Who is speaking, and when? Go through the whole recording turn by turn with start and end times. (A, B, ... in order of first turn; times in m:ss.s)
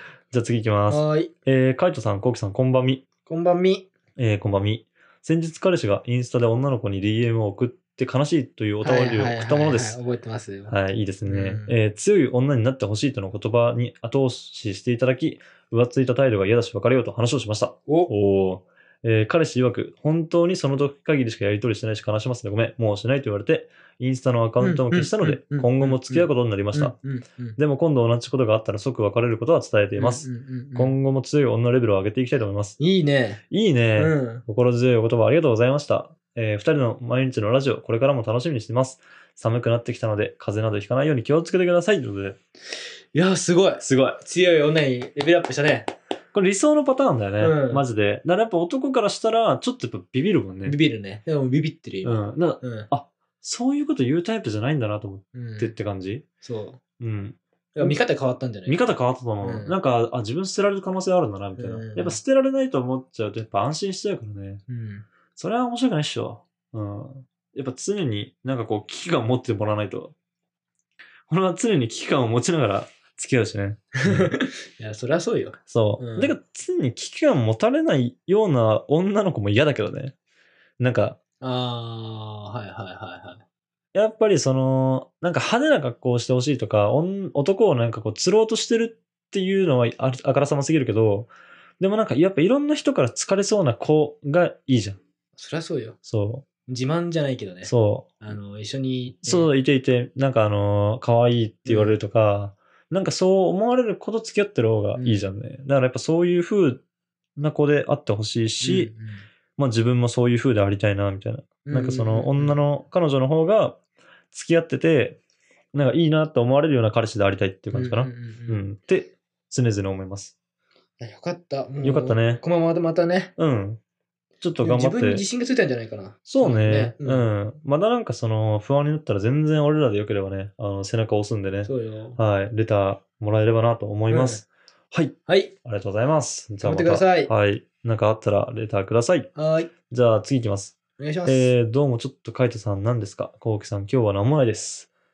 0:00.3-0:03.0 A
0:00.9-0:01.3 B
0:03.3-0:03.9 B
0:04.2-0:10.0 A
0:08.8-0:10.7 B
0:10.7-0:27.0 A
0:11.2-0:11.8 B
0:24.6-0:27.6 B
0:27.6-0:32.8 A
0:30.0-0:30.9 B
0:32.8-0:33.4 B
0:33.5-0:42.4 A
0:34.0-0:34.4 B
0:43.1-0:45.9 B
0:43.8-0:44.2 A
0:46.3-0:50.8 A
0:47.4-0:47.8 B
0:50.6-0:52.9 B
0:52.0-0:56.2 A
0:55.3-0:55.7 B
0:56.4-0:56.8 B
0:57.0-0:58.0 A
0:57.7-0:58.8 B
0:58.6-1:04.6 A
0:59.4-0:59.8 B
1:01.6-1:02.2 B
1:04.7-1:05.0 B
1:05.4-1:10.1 A
1:11.3-1:14.3 A
1:14.0-1:16.4 B
1:15.7-1:20.1 A
1:20.8-1:21.2 A
1:21.4-1:23.4 B
1:23.9-1:35.0 A
1:35.4-1:36.0 B
1:36.0-1:36.4 A
1:36.7-1:39.5 B
1:37.6-1:38.3 A
1:39.2-1:46.8 A
1:41.6-1:42.0 B
1:44.9-1:45.3 B
1:47.4-1:48.9 A
1:48.6-1:49.3 B
1:49.6-1:53.8 A
1:51.6-1:52.6 B
1:54.3-1:55.2 A
1:55.7-2:00.3 A
1:57.7-1:58.6 B
2:01.0-2:03.3 B
2:01.8-2:02.4 A
2:03.4-2:03.8 A
2:04.4-2:05.2 A
2:04.6-2:07.3 B
2:06.2-2:19.3 A
2:11.6-2:12.2 B
2:14.1-2:14.4 B
2:15.3-2:15.5 B
2:16.6-2:17.3 B
2:19.3-2:19.7 B
2:19.9-2:24.9 A
2:21.0-2:21.5 B